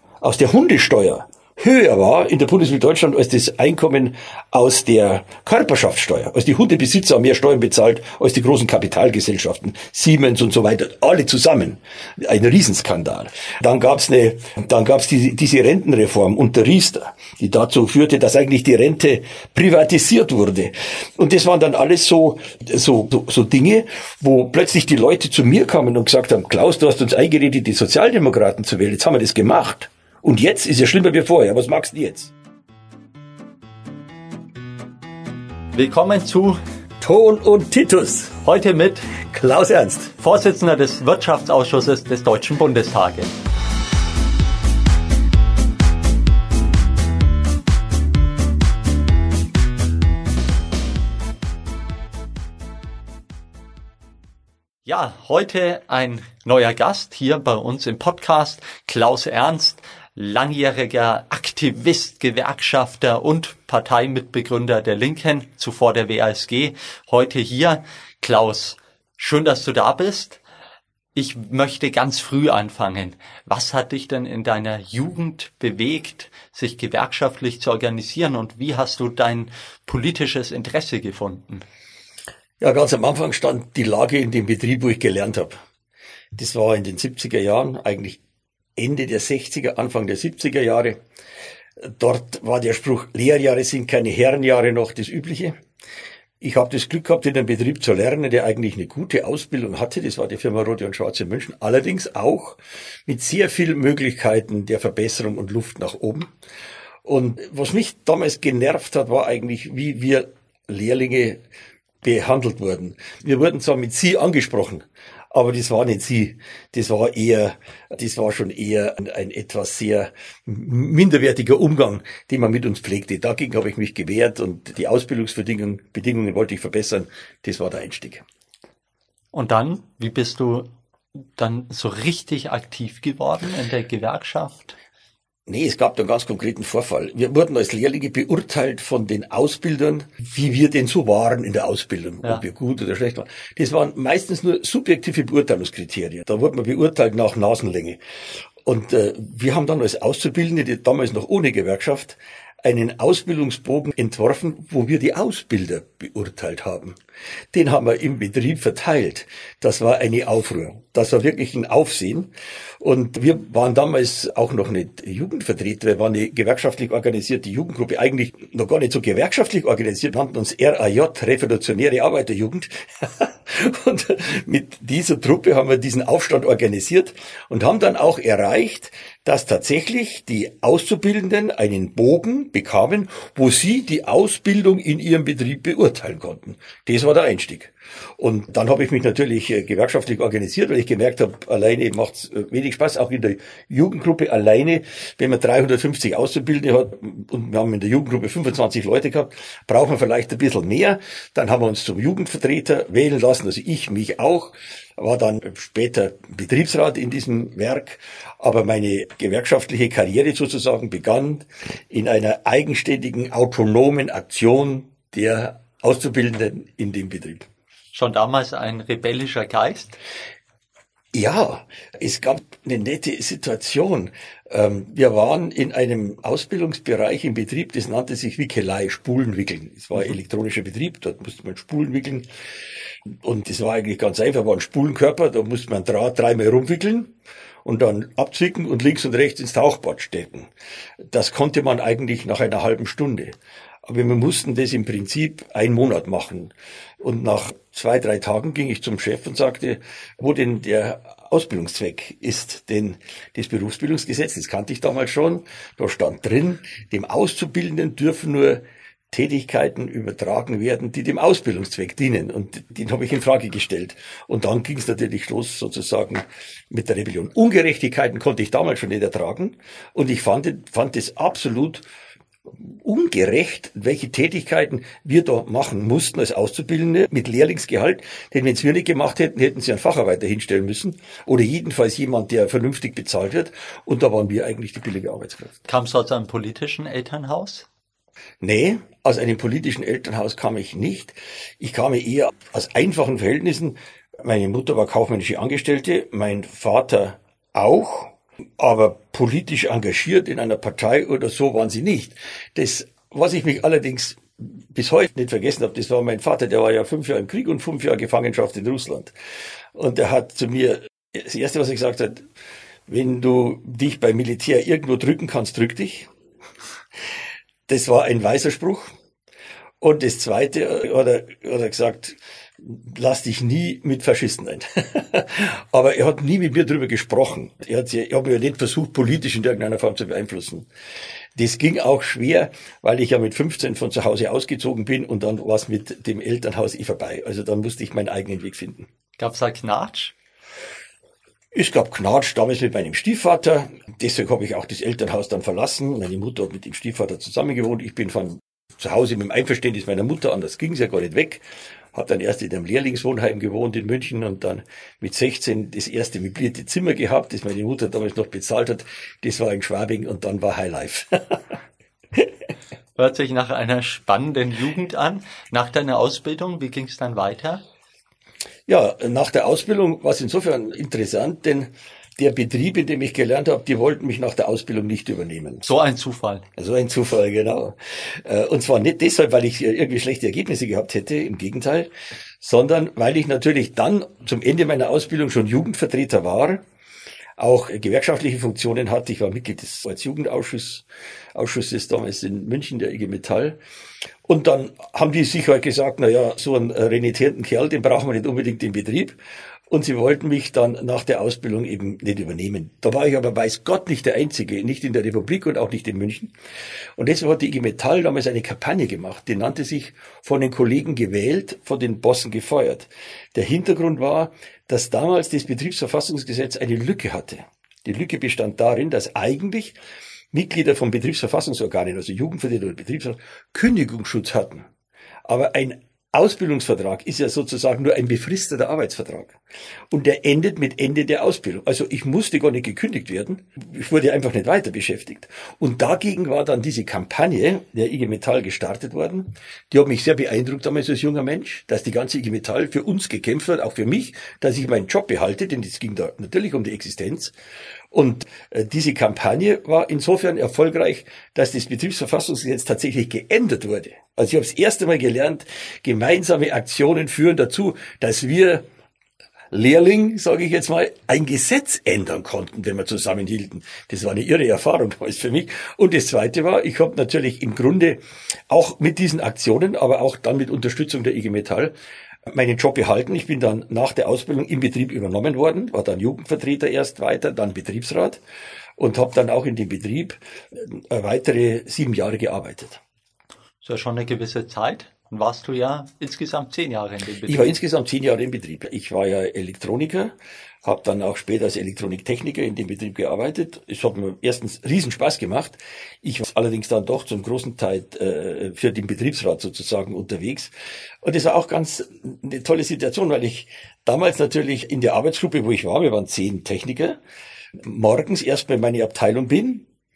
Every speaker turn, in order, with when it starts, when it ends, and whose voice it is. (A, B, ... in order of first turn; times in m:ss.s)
0:00.2-0:32.3 A
0:35.7-0:36.6 B
0:37.0-0:38.4 A
0:38.4-0:39.1 B
0:39.2-0:40.1 A
0:40.2-0:43.3 B
0:54.8-1:10.4 B
1:11.1-1:21.6 B
1:22.6-1:25.6 A
1:26.3-1:28.2 A
1:28.8-1:31.0 A
1:31.8-1:35.6 A
1:36.4-1:46.3 A
1:47.0-1:51.4 A
1:52.0-2:08.2 A
2:09.3-2:10.7 B
2:11.4-2:14.8 B
2:15.5-2:28.0 A
2:28.6-2:37.0 A
2:37.5-3:37.5 A
3:37.9-3:40.0 B
3:41.1-3:52.2 A
3:53.2-3:57.1 A
3:57.6-4:00.5 A
4:01.1-4:03.3 A
4:03.8-4:31.8 A
4:32.6-4:45.6 A
4:45.7-4:47.7 B
4:48.4-5:09.1 A
5:09.7-5:12.2 A
5:12.9-5:16.1 A
5:17.7-5:18.9 A
5:19.8-5:30.7 A
5:31.4-5:38.9 A
5:39.2-5:40.1 B
5:41.5-5:51.4 A
5:51.9-6:01.5 A
6:03.0-6:07.6 B
6:08.7-6:15.7 A
6:15.6-6:16.4 B
6:16.6-6:21.9 A
6:22.4-6:26.6 A
6:27.4-6:33.6 A
6:34.2-6:39.2 A
6:39.7-6:46.3 A
6:47.0-6:59.8 A
7:00.3-7:04.7 A
7:05.3-7:09.4 A
7:09.9-7:27.3 A
7:27.9-7:38.6 A
7:39.5-7:51.7 A
7:52.3-7:58.2 A
7:58.8-8:02.8 A
8:03.6-8:07.6 B
8:07.2-8:20.5 A
8:21.0-8:27.0 A
8:27.6-8:29.7 A